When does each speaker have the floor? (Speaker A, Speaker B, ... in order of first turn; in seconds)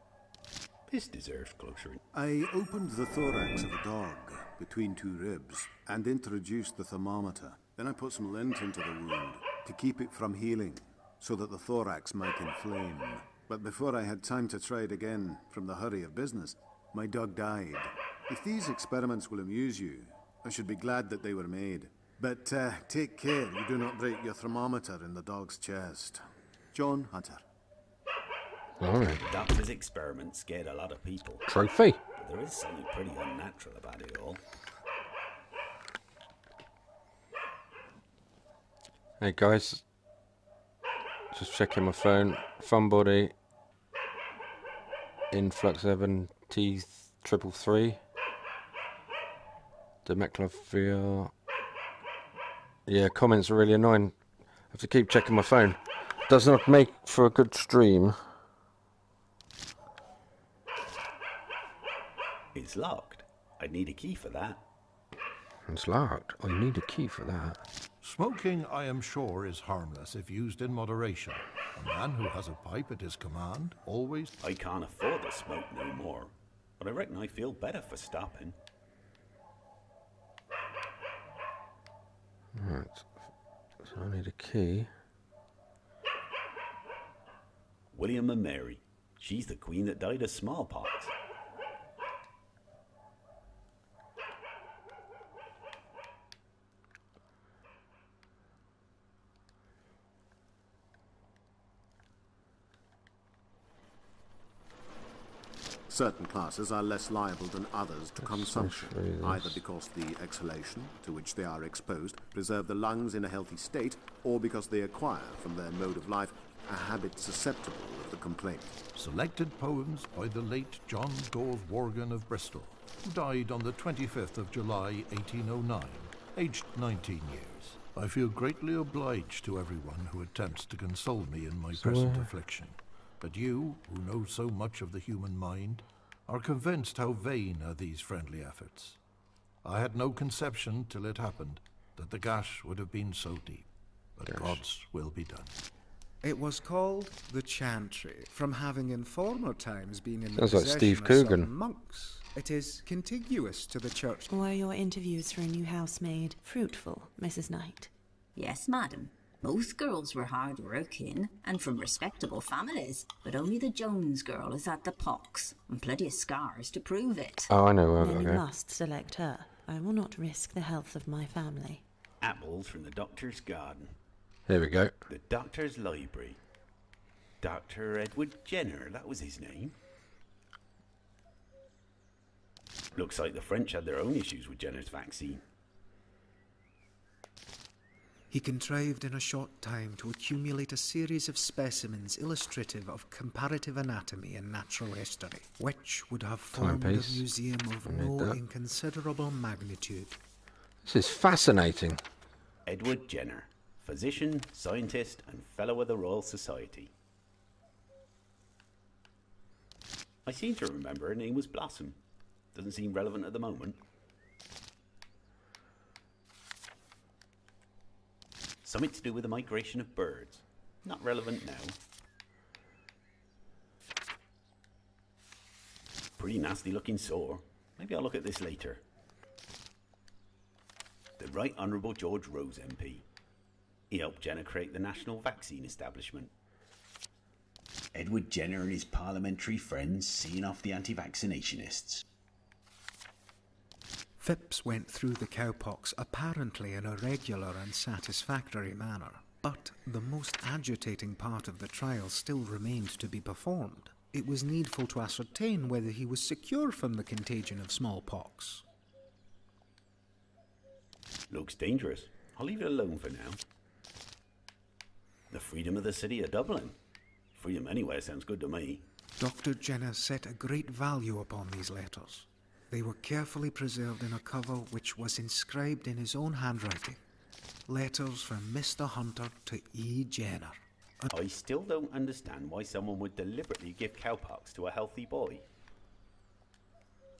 Speaker A: 0.9-2.0, 29.2-31.5, 32.2-34.4, 62.5-64.6, 74.4-78.5, 87.9-91.1, 172.2-173.9, 175.1-176.4, 177.4-179.8, 182.9-185.4, 202.7-206.9, 210.2-212.0, 212.5-213.8, 218.6-221.8, 226.2-228.8, 231.2-233.1, 233.9-236.3, 237.9-242.0, 261.3-263.4, 265.3-266.8, 267.3-268.9, 281.1-285.4
Speaker B: 2.1-26.2, 26.7-27.4, 105.9-118.8
Speaker C: 28.8-29.2, 31.5-32.0, 39.2-39.8, 41.3-43.3, 45.3-48.0, 50.0-51.3, 52.9-54.1, 54.7-58.3, 65.7-67.6, 82.5-83.1, 83.8-84.9, 108.2-109.6, 131.7-132.3, 144.3-144.6, 150.3-151.5, 167.5-168.4, 174.5-174.9, 196.5-197.3, 197.8-198.4, 200.8-202.0
Speaker D: 68.0-74.3, 118.9-139.0, 139.6-145.5
Speaker E: 146.2-154.3, 188.3-200.2, 244.2-258.6, 269.2-277.0, 277.7-281.1
Speaker F: 154.3-157.9, 168.0-171.8
Speaker G: 158.3-167.5